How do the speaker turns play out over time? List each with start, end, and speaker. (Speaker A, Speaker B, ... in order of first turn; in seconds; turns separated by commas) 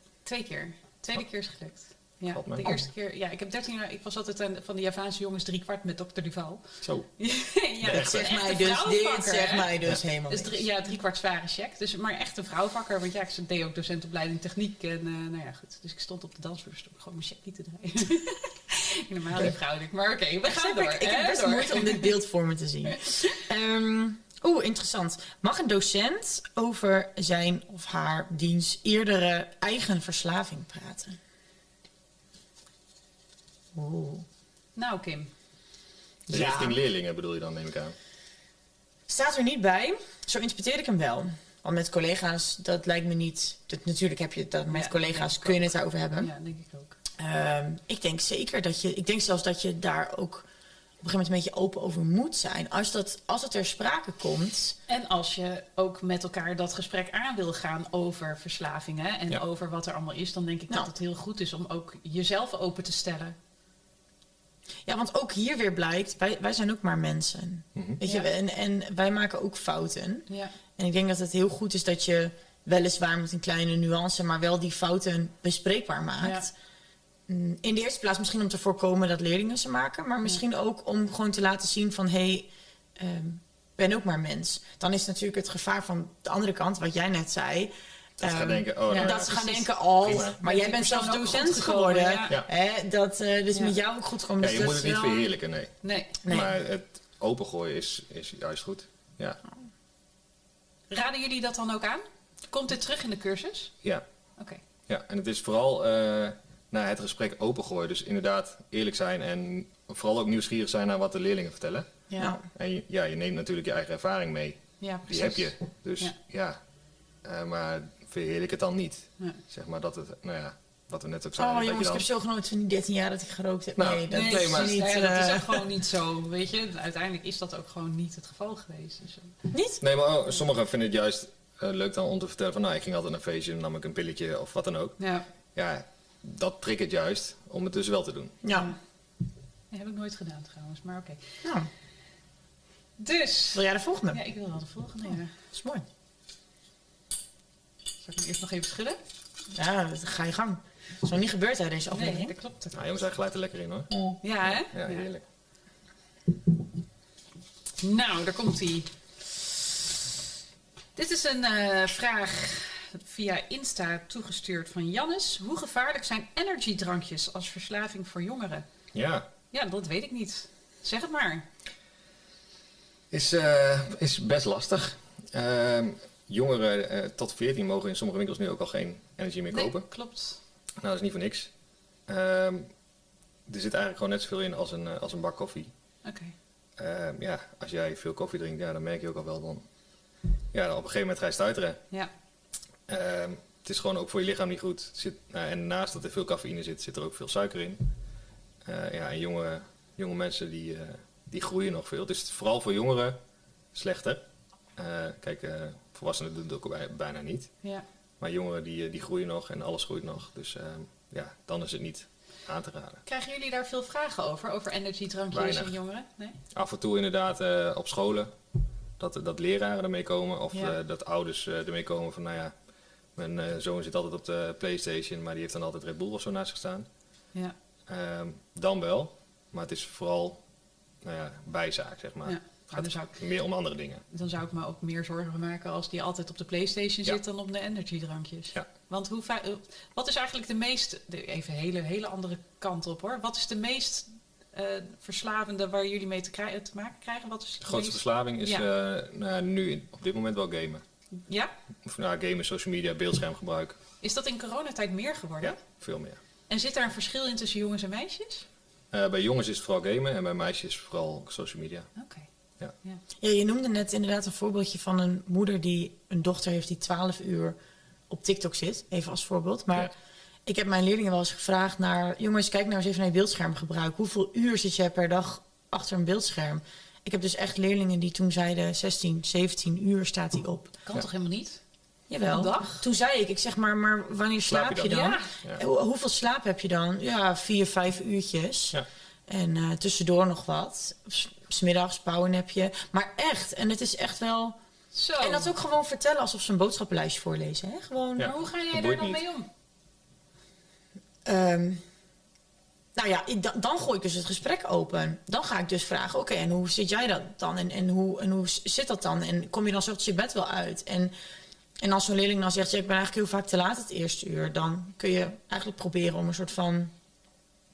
Speaker A: 0.2-6.6, Speaker B: 2.3-2.7, Speaker A: 7.2-22.1, Speaker C: 7.8-10.6, Speaker B: 7.8-8.2, Speaker C: 20.4-31.2, Speaker C: 33.7-34.2, Speaker A: 34.8-35.3, Speaker B: 36.3-38.0, Speaker C: 36.3-36.8, Speaker C: 39.1-46.3, Speaker A: 44.7-45.6, Speaker A: 46.2-47.0, Speaker C: 47.2-50.5, Speaker C: 51.0-54.8, Speaker A: 54.9-63.4, Speaker C: 64.8-76.5, Speaker B: 67.8-68.0, Speaker A: 70.3-70.5, Speaker A: 76.2-76.5, Speaker C: 77.3-95.2, Speaker B: 88.2-89.4, Speaker A: 88.9-89.6, Speaker B: 90.0-90.4, Speaker A: 90.4-92.3, Speaker B: 94.4-95.7, Speaker A: 95.8-96.2, Speaker B: 96.2-99.4, Speaker C: 96.2-96.5, Speaker A: 100.9-103.7, Speaker B: 104.9-111.9, Speaker A: 112.1-112.3, Speaker C: 112.2-112.4, Speaker B: 112.5-116.6, Speaker A: 114.8-116.1, Speaker B: 117.2-122.0, Speaker C: 121.4-125.7, Speaker B: 123.8-124.8, Speaker A: 124.1-129.3, Speaker C: 129.5-129.8, Speaker B: 129.8-135.0, Speaker A: 135.0-135.2, Speaker B: 135.5-138.4, Speaker C: 138.4-138.7, Speaker A: 138.5-138.8, Speaker A: 139.7-141.2, Speaker C: 141.4-141.7, Speaker A: 143.0-145.3, Speaker C: 143.5-144.2, Speaker C: 145.4-145.8, Speaker A: 148.0-149.0, Speaker C: 149.5-152.3, Speaker A: 151.9-152.8, Speaker B: 152.7-153.9, Speaker A: 154.2-155.0, Speaker B: 154.4-155.2, Speaker A: 157.8-159.6, Speaker A: 160.9-168.6, Speaker B: 168.9-169.3, Speaker A: 169.5-171.5, Speaker B: 173.1-179.9, Speaker A: 179.5-180.4, Speaker B: 180.8-181.5, Speaker B: 182.1-182.7, Speaker B: 183.5-185.7, Speaker A: 186.0-186.3, Speaker B: 186.8-189.6, Speaker B: 190.5-191.8, Speaker B: 192.9-197.8, Speaker B: 198.6-203.2, Speaker B: 203.7-204.2, Speaker B: 204.8-207.5, Speaker B: 208.2-213.0, Speaker A: 213.1-216.4, Speaker B: 215.3-215.8, Speaker B: 216.5-218.3, Speaker B: 219.0-222.5, Speaker B: 223.2-226.9, Speaker B: 227.9-230.4, Speaker B: 231.0-234.0, Speaker A: 232.2-233.2, Speaker A: 234.1-248.7, Speaker B: 247.6-250.8, Speaker A: 251.3-251.5, Speaker B: 251.8-253.8, Speaker A: 254.0-255.6, Speaker B: 255.4-256.2, Speaker A: 256.5-258.4, Speaker B: 258.9-261.9, Speaker A: 261.9-262.2, Speaker C: 263.2-267.6, Speaker C: 268.1-269.9, Speaker C: 270.4-280.8, Speaker A: 280.8-281.6, Speaker C: 282.1-294.6, Speaker A: 282.3-282.8, Speaker B: 284.5-285.6, Speaker A: 284.8-285.3, Speaker A: 294.9-295.5, Speaker C: 295.2-298.3, Speaker B: 298.2-299.2, Speaker A: 298.2-299.5, Speaker C: 301.2-301.8, Speaker C: 302.9-311.1, Speaker C: 311.8-316.9